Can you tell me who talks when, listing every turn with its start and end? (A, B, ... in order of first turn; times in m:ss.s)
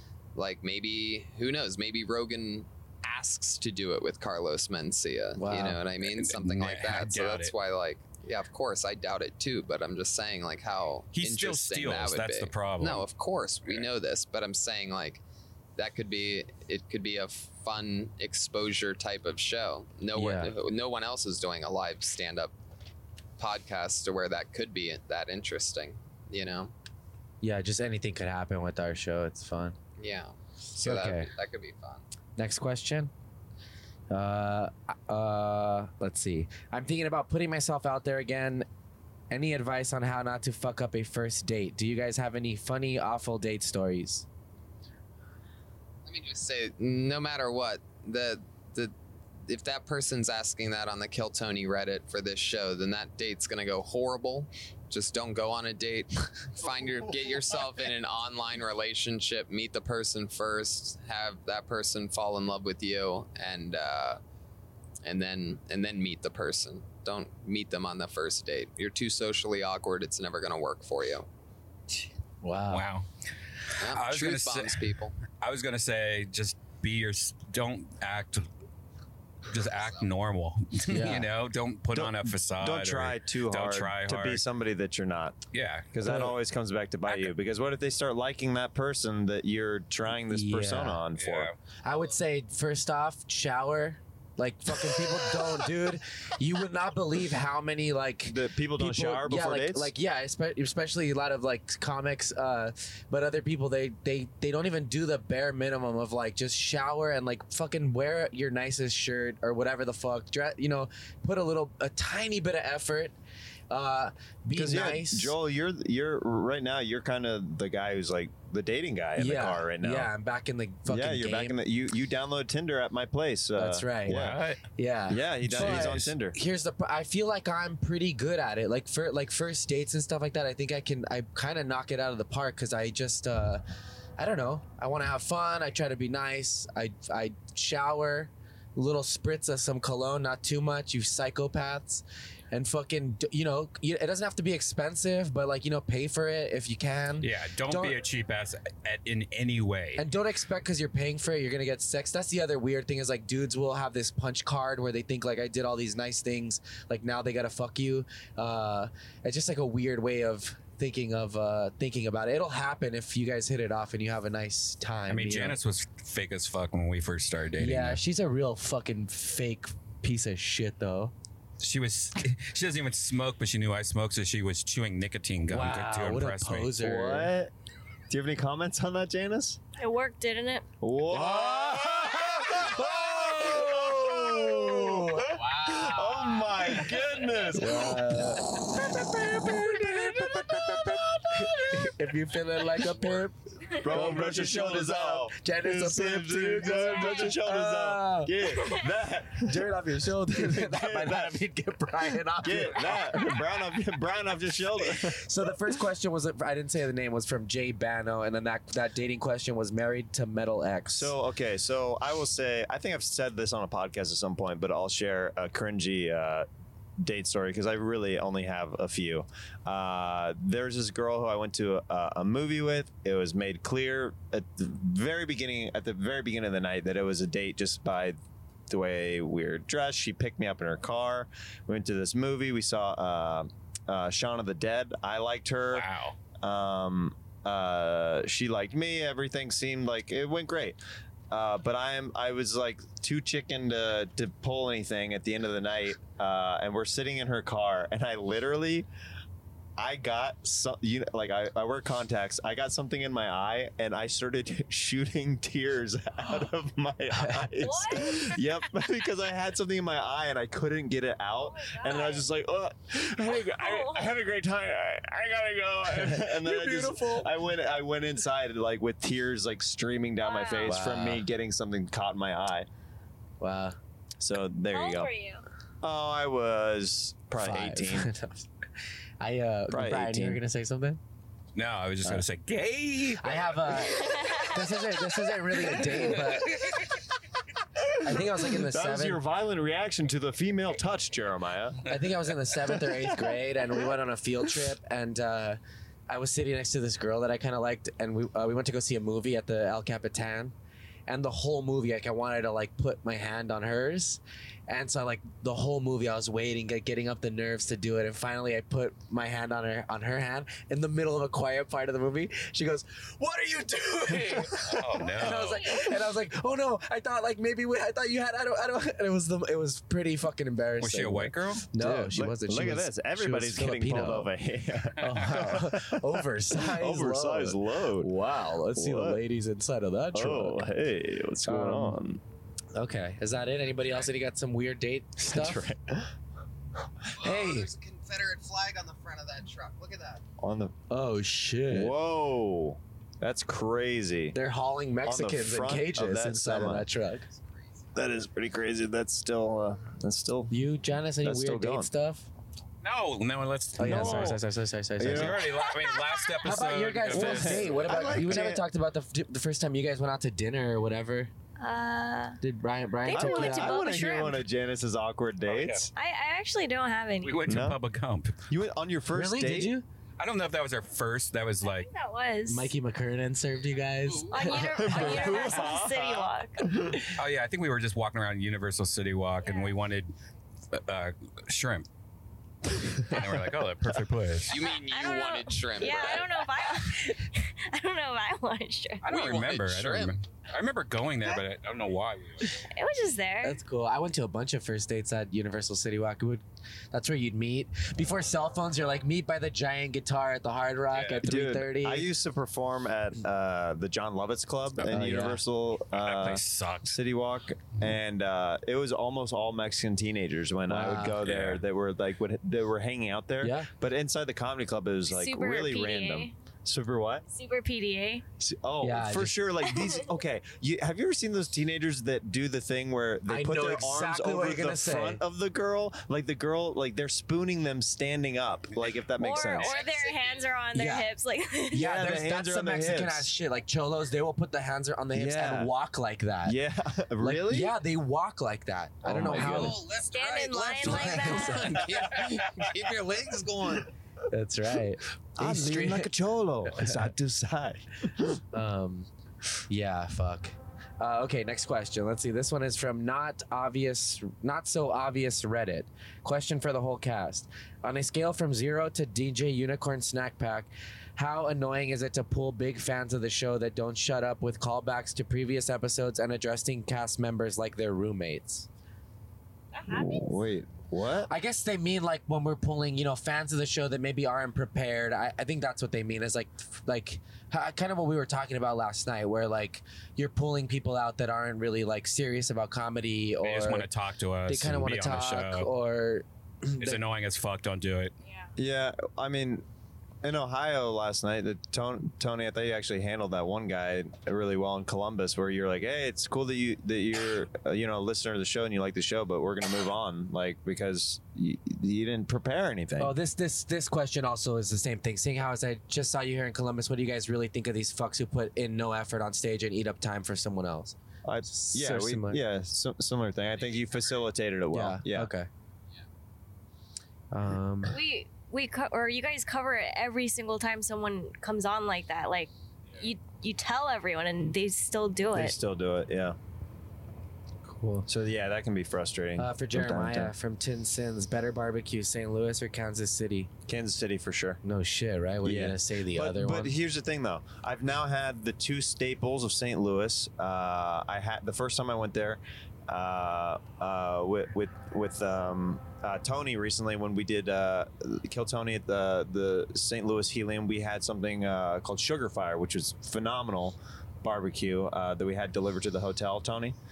0:00.3-0:15.2 A
0:05.4-0:05.8 B
0:06.0-0:07.5 C
0:11.1-0:13.0 C
0:15.8-0:22.5 A
0:20.1-0:20.5 B
0:23.4-0:26.7 A
0:27.4-0:29.8 B
0:30.0-0:32.0 A
0:30.8-0:31.3 B
0:32.4-0:33.1 B
0:34.1-0:38.6 B
0:39.3-0:44.2 B
0:46.0-0:48.9 A
0:49.5-1:04.2 A
1:05.0-1:11.3 A
1:12.4-1:12.8 B
1:12.7-1:13.0 C
1:13.8-1:15.1 A
1:13.8-1:18.5 C
1:19.5-1:24.4 C
1:19.6-1:20.1 A
1:20.9-1:21.3 B
1:21.9-1:25.4 D
1:25.5-1:25.9 C
1:25.9-1:31.5 D
1:26.0-1:26.3 B
1:27.1-1:27.3 C
1:30.3-1:31.0 B
1:31.2-1:31.6 C
1:31.8-1:53.2 B
1:38.2-1:39.9 D
1:53.7-1:55.3 B
1:54.5-2:00.1 D
1:59.2-2:01.6 B
2:00.9-2:04.5 D
2:03.6-2:04.2 B
2:04.1-2:04.6 C
2:04.8-2:13.6 B
2:05.1-2:06.4 D
2:05.6-2:06.0 C
2:14.2-2:28.0 B
2:27.2-2:30.0 C
2:30.0-2:45.6 B
2:45.1-2:48.0 C
2:47.6-2:51.1 B
2:51.6-2:56.8 C
2:55.5-2:57.3 B
2:56.8-2:57.5 D
2:58.1-2:59.6 D
2:59.8-3:00.7 E
3:00.8-3:12.0 D
3:01.1-3:05.3 B
3:05.2-3:06.7 A
3:07.5-3:08.5 B
3:09.1-3:18.5 B
3:13.7-3:19.7 D
3:16.8-3:17.3 E
3:18.6-3:18.9 E
3:19.4-3:23.4 B
3:20.4-3:21.4 D
3:22.4-3:25.2 D
3:25.0-3:31.1 B
3:30.9-3:36.5 D
3:37.0-3:55.9 D
3:55.7-3:56.2 C
3:56.4-4:00.8 D
4:01.3-4:08.9 D
4:09.8-4:32.7 D
4:17.1-4:17.5 B
4:17.6-4:18.5 E
4:21.4-4:22.3 E
4:23.3-4:24.1 E
4:25.9-4:27.3 B
4:30.2-4:30.8 E
4:30.6-4:31.2 B
4:33.4-4:33.8 B
4:34.2-4:35.1 D
4:34.7-4:35.4 E
4:35.8-4:38.1 D
4:37.4-4:38.5 B
4:39.2-4:41.0 B
4:39.7-4:40.4 D
4:41.5-4:43.4 C
4:43.2-4:46.8 B
4:44.0-4:44.6 E
4:48.0-4:49.2 B
4:48.1-4:51.9 D
4:51.9-5:00.5 B
4:52.7-4:53.3 D
5:01.1-5:24.3 B
5:14.4-5:15.6 C
5:20.8-5:21.7 C
5:21.8-5:28.1 D
5:25.0-5:30.7 B
5:28.7-5:29.2 D
5:30.1-5:32.2 D
5:31.4-5:32.0 B
5:32.7-5:35.6 B
5:35.2-5:36.1 D
5:37.1-5:40.2 A
5:37.2-5:37.7 B
5:40.4-5:40.7 D
5:40.9-5:41.9 B
5:41.7-5:44.4 D
5:44.3-5:47.3 B
5:45.0-5:46.9 D
5:47.3-5:47.9 A
5:47.9-5:50.5 D
5:50.5-5:52.3 B
5:51.2-5:51.9 D
5:52.8-5:54.4 C
5:53.8-5:55.4 B
5:53.8-5:54.4 D
5:55.0-5:55.5 D
5:55.1-5:58.3 C
5:55.7-5:56.3 E
5:56.4-6:01.3 B
5:57.1-5:58.6 D
6:01.6-6:02.4 E
6:02.4-6:03.9 B
6:03.0-6:04.4 E
6:03.1-6:05.9 D
6:05.5-6:05.9 C
6:05.9-6:07.4 E
6:07.2-6:08.4 C
6:07.4-6:07.8 D
6:08.5-6:09.8 D
6:09.1-6:09.8 B
6:10.2-6:11.9 C
6:11.6-6:12.7 E
6:12.4-6:15.4 B
6:14.0-6:15.3 A
6:14.3-6:16.6 E
6:14.7-6:17.0 D
6:17.1-6:20.1 C
6:19.4-6:19.8 E
6:20.7-6:21.9 C
6:23.0-6:24.6 C
6:24.5-6:26.6 A
6:24.7-6:29.0 E
6:29.0-6:32.6 C
6:29.0-6:30.2 A
6:32.7-6:33.6 E
6:33.4-6:42.1 B
6:40.9-6:41.2 C
6:41.2-6:57.2 D
6:44.8-6:45.4 B
6:45.9-6:47.0 C
6:50.7-6:51.2 B
6:51.2-6:51.6 C
6:53.4-6:53.7 B
6:55.1-6:56.3 E
6:57.3-6:58.2 E
6:58.4-7:09.7 D
6:58.8-6:59.4 B
6:59.6-7:00.1 E
7:03.3-7:05.2 B
7:09.2-7:11.8 E
7:09.6-7:10.6 A
7:10.7-7:11.1 B
7:11.7-7:16.6 B
7:11.7-7:13.3 D
7:15.1-7:15.7 D
7:16.4-7:17.8 D
7:17.2-7:19.8 B
7:19.0-7:19.7 D
7:19.3-7:23.9 A
7:20.1-7:21.8 E
7:20.8-7:21.7 B
7:24.3-7:26.1 B
7:25.4-7:28.4 D
7:26.7-7:27.0 B
7:28.5-7:29.1 B
7:29.7-7:48.7 B
7:49.7-7:50.4 E
7:49.9-7:51.3 D
7:51.3-8:03.9 B
8:03.4-8:05.7 C
8:04.5-8:07.0 B
8:06.8-8:08.1 C
8:08.2-8:08.5 E
8:08.6-8:09.6 D
8:10.2-8:23.1 D
8:23.0-8:32.4 B
8:31.2-8:35.3 D
8:33.5-8:34.3 A
8:34.7-8:35.5 B
8:37.3-8:38.0 B
8:37.8-8:45.5 E
8:45.3-8:46.4 D
8:47.6-8:48.1 B
8:48.1-8:50.3 D
8:49.4-8:53.5 B
8:53.7-8:54.6 D
8:54.6-8:56.7 B
8:55.4-9:16.8 D